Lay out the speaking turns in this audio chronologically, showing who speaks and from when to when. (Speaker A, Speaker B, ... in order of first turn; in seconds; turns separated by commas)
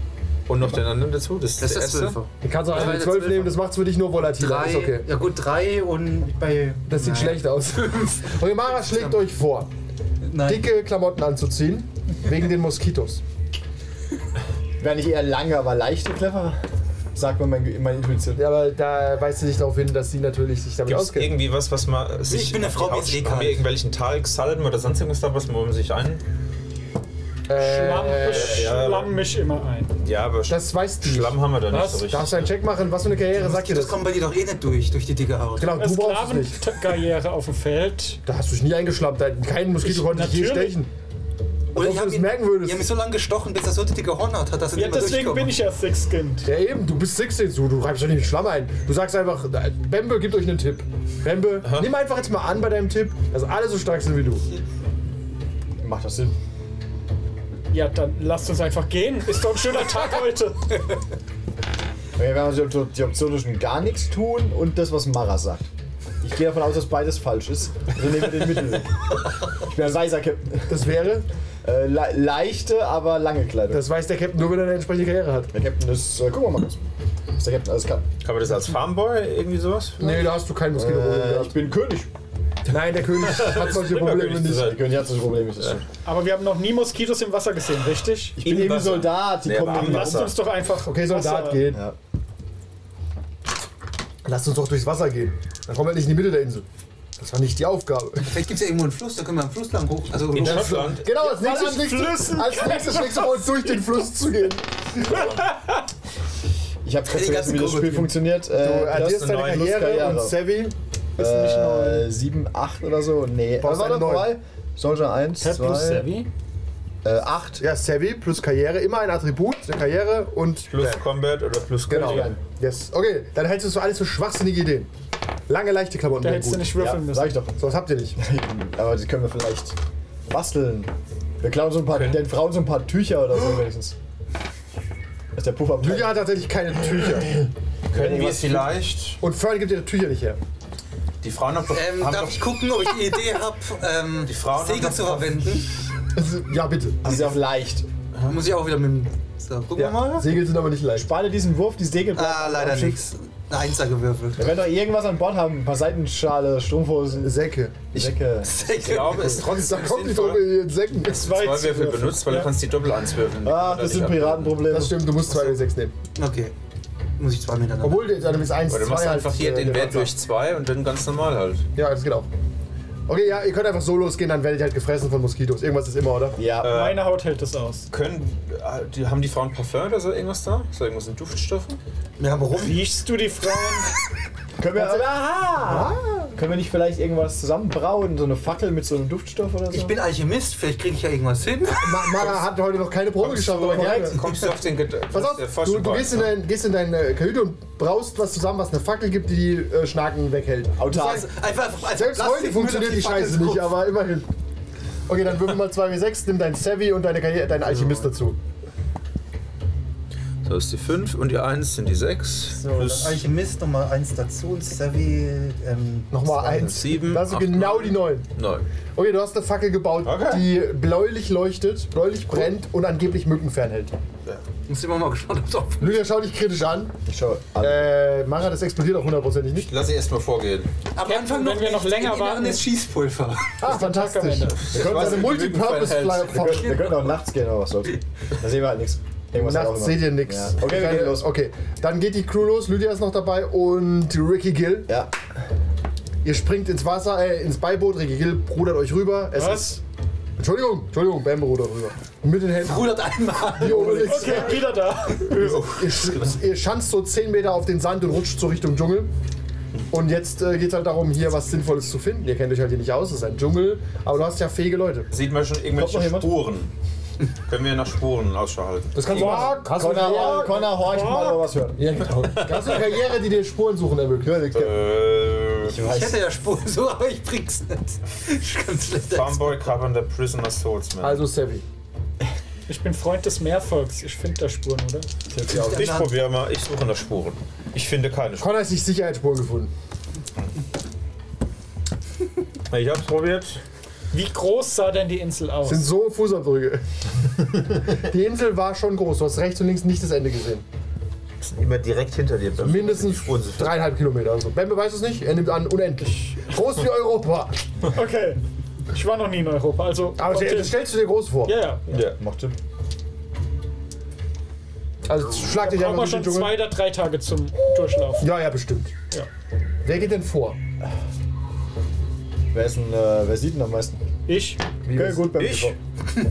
Speaker A: 0.5-2.2, Speaker B: 1.6-3.6, Speaker C: 2.4-5.1, Speaker B: 4.2-9.2, Speaker C: 6.9-9.7, Speaker B: 10.2-10.7, Speaker C: 10.4-13.2, Speaker D: 14.8-16.6, Speaker D: 17.1-18.4, Speaker C: 18.4-21.4, Speaker A: 20.9-26.2, Speaker B: 22.3-23.7, Speaker C: 27.5-28.8, Speaker E: 27.5-29.9, Speaker A: 28.1-29.2, Speaker A: 30.0-32.5, Speaker C: 30.5-34.0, Speaker E: 31.7-32.0, Speaker B: 33.3-35.8, Speaker C: 35.6-36.6, Speaker E: 35.7-38.2, Speaker C: 38.2-40.9, Speaker E: 39.8-40.8, Speaker C: 41.7-42.9, Speaker B: 41.7-45.5, Speaker E: 44.7-46.5, Speaker C: 46.4-54.5, Speaker A: 51.6-51.9, Speaker D: 55.8-56.3, Speaker E: 57.7-60.8, Speaker D: 62.2-65.7, Speaker D: 66.2-70.9, Speaker C: 70.7-71.2, Speaker D: 71.6-73.8, Speaker C: 73.7-75.5, Speaker D: 75.5-76.8, Speaker D: 77.4-78.0, Speaker A: 78.2-80.3, Speaker C: 80.0-81.6, Speaker D: 80.7-82.1, Speaker C: 82.7-84.8, Speaker A: 83.1-84.9, Speaker D: 84.6-85.8, Speaker E: 86.0-88.4, Speaker D: 88.3-90.3, Speaker A: 88.4-90.4, Speaker E: 89.7-91.7, Speaker C: 90.8-91.8, Speaker C: 94.2-96.7, Speaker C: 97.2-98.3, Speaker B: 98.2-100.9, Speaker A: 100.3-101.1, Speaker C: 100.3-105.4, Speaker E: 101.2-103.5, Speaker E: 105.1-105.8, Speaker D: 106.8-110.4, Speaker B: 107.1-108.2, Speaker C: 108.5-110.7, Speaker A: 108.9-109.8, Speaker E: 111.2-112.1, Speaker D: 111.2-116.1, Speaker C: 113.6-114.4, Speaker E: 115.4-116.3, Speaker D: 117.0-117.6, Speaker C: 117.6-121.0, Speaker A: 120.7-122.3, Speaker D: 121.9-122.4, Speaker C: 121.9-124.9, Speaker C: 125.5-126.8, Speaker E: 126.2-127.4, Speaker D: 126.7-127.5, Speaker C: 127.6-128.2, Speaker D: 128.2-129.8, Speaker D: 130.3-133.9, Speaker A: 131.9-132.2, Speaker D: 135.3-136.2, Speaker C: 135.8-137.3, Speaker D: 137.9-138.8, Speaker A: 137.9-139.2, Speaker C: 139.2-140.4, Speaker A: 141.2-142.5, Speaker B: 141.7-145.7, Speaker A: 144.2-145.5, Speaker C: 146.1-147.1, Speaker D: 147.0-147.9, Speaker B: 148.2-150.3, Speaker C: 149.8-151.1, Speaker D: 150.9-153.0, Speaker B: 152.1-154.6, Speaker D: 154.4-157.3, Speaker C: 157.2-157.8, Speaker D: 157.9-159.3, Speaker B: 158.4-159.5, Speaker A: 158.8-160.5, Speaker C: 159.4-161.3, Speaker A: 161.0-164.6, Speaker E: 161.1-162.6, Speaker D: 163.4-165.1, Speaker C: 164.7-165.9, Speaker B: 165.3-165.6, Speaker B: 166.1-166.5, Speaker B: 167.2-168.1, Speaker C: 167.8-170.1, Speaker A: 168.7-171.6, Speaker C: 171.8-172.3, Speaker C: 173.1-176.4, Speaker D: 176.3-176.8, Speaker A: 176.6-177.1, Speaker E: 176.7-177.9, Speaker A: 177.9-181.8, Speaker B: 182.2-182.9, Speaker E: 182.5-183.9, Speaker D: 184.6-190.0, Speaker C: 184.7-186.3, Speaker B: 189.7-192.2, Speaker C: 191.7-194.2, Speaker A: 193.2-196.3, Speaker D: 193.6-194.3, Speaker C: 195.1-201.3, Speaker D: 200.8-201.3, Speaker B: 201.1-203.8, Speaker C: 201.8-204.3, Speaker C: 205.1-208.4, Speaker B: 207.6-208.1, Speaker A: 210.4-213.2, Speaker B: 212.4-216.1, Speaker C: 216.1-218.3, Speaker A: 216.2-218.7, Speaker C: 218.9-223.9, Speaker A: 220.0-220.5, Speaker B: 224.7-226.0, Speaker C: 225.8-227.0, Speaker D: 227.1-228.0, Speaker C: 227.6-229.7, Speaker A: 229.6-230.7, Speaker B: 230.9-233.6, Speaker E: 231.0-232.7, Speaker C: 233.6-236.8, Speaker E: 233.6-234.7, Speaker A: 234.6-236.4, Speaker D: 234.7-241.3, Speaker B: 236.4-237.2, Speaker C: 239.3-244.9, Speaker D: 244.9-245.1, Speaker C: 246.2-249.8, Speaker E: 249.3-249.8, Speaker C: 250.4-253.0, Speaker B: 252.6-254.0, Speaker C: 253.5-259.1, Speaker D: 253.6-254.3, Speaker E: 253.6-255.6, Speaker A: 255.2-256.4, Speaker C: 259.9-265.1, Speaker A: 265.1-266.7, Speaker D: 265.7-266.5, Speaker A: 267.4-269.6, Speaker C: 268.9-270.7, Speaker E: 269.1-271.6, Speaker D: 269.5-271.8, Speaker C: 271.8-274.5, Speaker A: 272.2-272.8, Speaker D: 274.2-274.8, Speaker A: 274.5-275.8, Speaker D: 275.6-276.2, Speaker B: 275.8-279.6, Speaker A: 279.1-281.3, Speaker C: 281.0-281.6, Speaker E: 282.7-285.1, Speaker D: 285.3-285.9, Speaker B: 285.5-286.3, Speaker A: 285.5-288.5, Speaker C: 288.4-289.7, Speaker A: 292.7-293.6, Speaker E: 294.1-295.9, Speaker C: 295.6-296.8, Speaker C: 297.9-300.6, Speaker A: 301.4-303.8, Speaker C: 302.6-307.6, Speaker E: 307.9-308.4, Speaker E: 308.9-310.8, Speaker C: 310.2-311.6, Speaker E: 311.4-312.1, Speaker A: 311.9-312.1, Speaker D: 312.1-312.6, Speaker C: 315.0-316.6, Speaker E: 315.4-318.3, Speaker C: 318.2-318.9, Speaker C: 319.8-320.6, Speaker D: 322.5-324.0, Speaker E: 324.3-324.7, Speaker C: 324.8-325.3, Speaker D: 324.9-325.8, Speaker A: 325.3-325.7